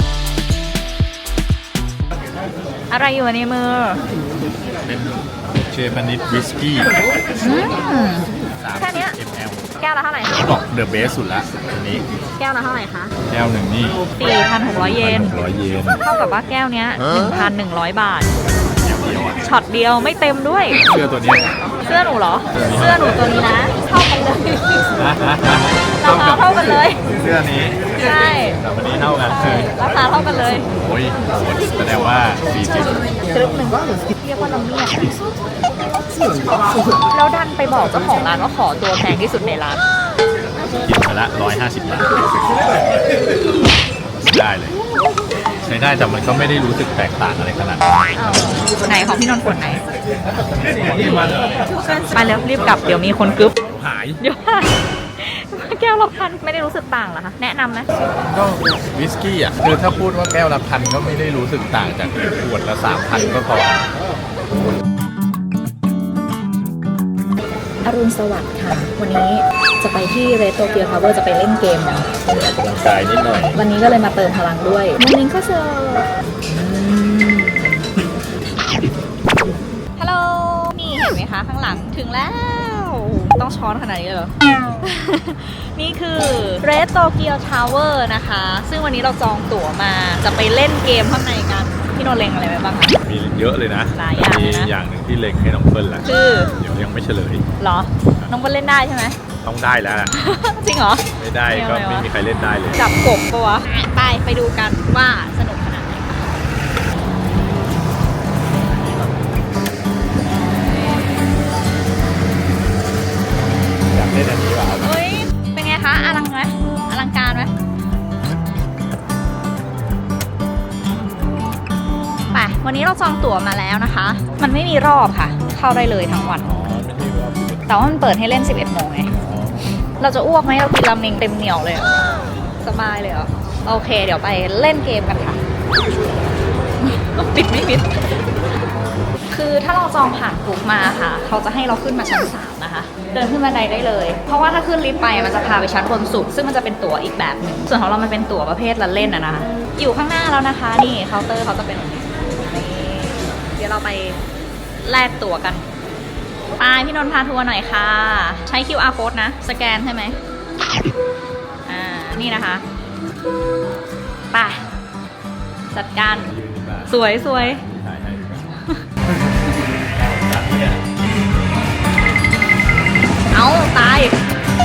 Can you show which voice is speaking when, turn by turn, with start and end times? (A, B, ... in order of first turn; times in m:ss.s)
0:02.9-0:04.0 A
0:04.8-0:07.0 B
0:07.4-0:08.3 A
0:08.4-0:12.0 B
0:08.8-0:09.2 A
0:09.8-0:10.6 A
0:12.4-0:13.1 A
0:13.3-0:14.1 B
0:14.2-0:15.3 A
0:14.8-0:16.0 B
0:16.0-0:18.3 A
0:18.8-0:19.5 B
0:19.4-0:20.8 A
0:20.8-0:21.5 B
0:21.8-0:24.9 A
0:22.6-0:23.3 B
0:25.0-0:27.9 B
0:26.0-0:27.0 A
0:28.0-0:28.6 A
0:28.6-0:29.7 B
0:29.2-0:30.7 A
0:30.7-0:33.0 B
0:33.2-0:35.5 A
0:36.3-0:39.8 A
0:40.9-0:42.7 B
0:44.2-0:44.8 B
0:45.6-0:48.2 B
0:48.2-0:49.8 A
0:50.2-0:51.7 B
0:51.0-0:53.6 A
0:53.7-0:54.2 B
0:54.2-0:57.9 A
0:58.2-1:03.9 B
1:07.8-1:12.1 A
1:12.2-1:13.6 B
1:13.6-1:17.7 A
1:20.0-1:33.0 A
1:33.0-1:37.4 B
1:34.0-1:34.7 A
1:36.0-1:36.5 A
1:37.6-1:39.2 A
1:39.4-1:40.1 B
1:40.1-1:42.1 A
1:41.2-1:42.8 B
1:42.8-1:46.3 A
1:48.5-1:49.2 B
1:50.3-1:51.3 A
1:53.9-1:54.9 B
1:54.8-1:57.5 A
2:02.3-2:06.5 A
2:06.4-2:07.8 B
2:07.7-2:09.2 A
2:09.1-2:09.6 B
2:10.0-2:15.4 A
2:16.8-2:18.3 A
2:19.3-2:34.2 A
2:34.8-2:35.7 A
2:36.6-2:40.2 A
2:41.7-2:42.6 A
2:44.3-2:44.6 A
2:45.7-2:46.3 A
2:46.1-2:48.6 B
2:46.9-2:47.6 A
2:49.9-2:50.8 B
2:53.3-2:54.2 A